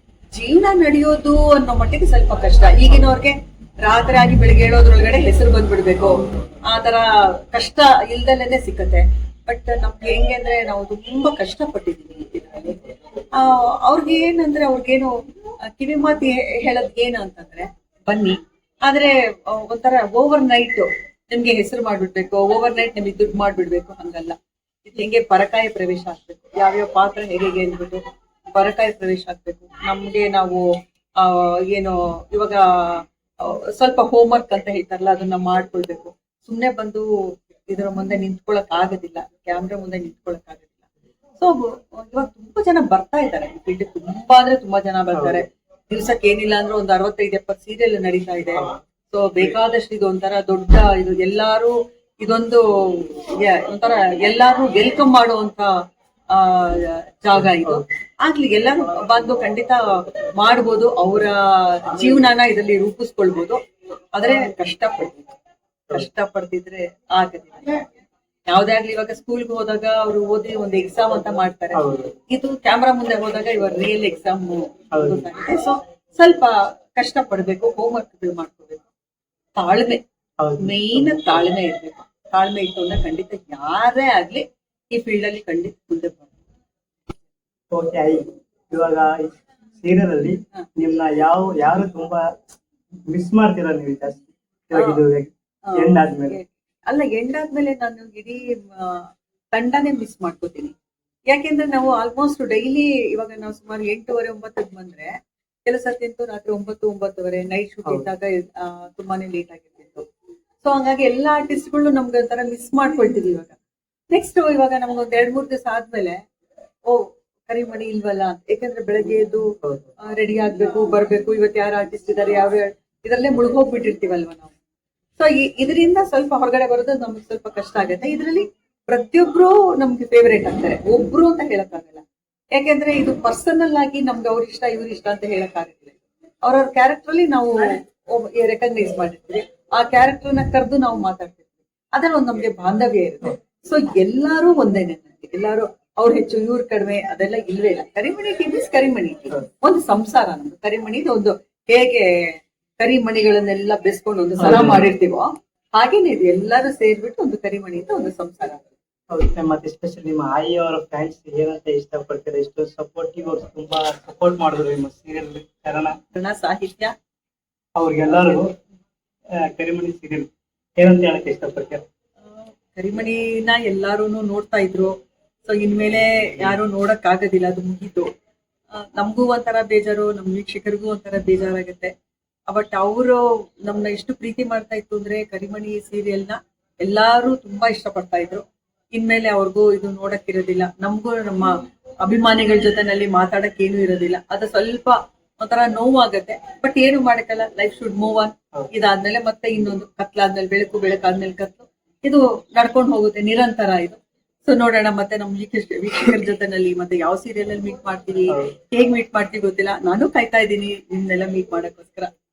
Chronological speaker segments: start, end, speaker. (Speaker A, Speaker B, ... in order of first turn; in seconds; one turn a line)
Speaker A: 0.3-12.8
Speaker A: 13.3-28.0
Speaker A: 28.5-30.7
Speaker A: 31.2-37.1
Speaker A: 37.7-40.7
Speaker A: 41.4-55.7
Speaker B: 45.1-45.4
Speaker A: 56.3-59.8
Speaker B: 57.4-57.9
Speaker A: 60.4-63.6
Speaker A: 64.2-65.3
Speaker A: 65.9-67.8
Speaker A: 68.5-78.9
Speaker B: 71.7-72.1
Speaker B: 74.9-75.2
Speaker A: 79.6-80.0
Speaker B: 80.4-81.5
Speaker A: 80.6-86.3
Speaker B: 87.7-92.2
Speaker B: 93.1-96.4
Speaker A: 94.8-95.0
Speaker A: 95.7-100.7
Speaker A: 101.3-110.1
Speaker A: 110.6-113.6
Speaker A: 114.1-116.2
Speaker A: 116.9-124.5
Speaker A: 125.2-132.0
Speaker A: 132.6-152.1
Speaker A: 152.8-158.7
Speaker B: 154.4-154.9
Speaker B: 159.1-166.0
Speaker A: 166.1-166.9
Speaker B: 167.8-168.5
Speaker B: 169.4-171.8
Speaker A: 172.3-174.9
Speaker A: 175.4-178.1
Speaker A: 178.8-181.9
Speaker A: 182.5-212.1
Speaker B: 208.3-208.5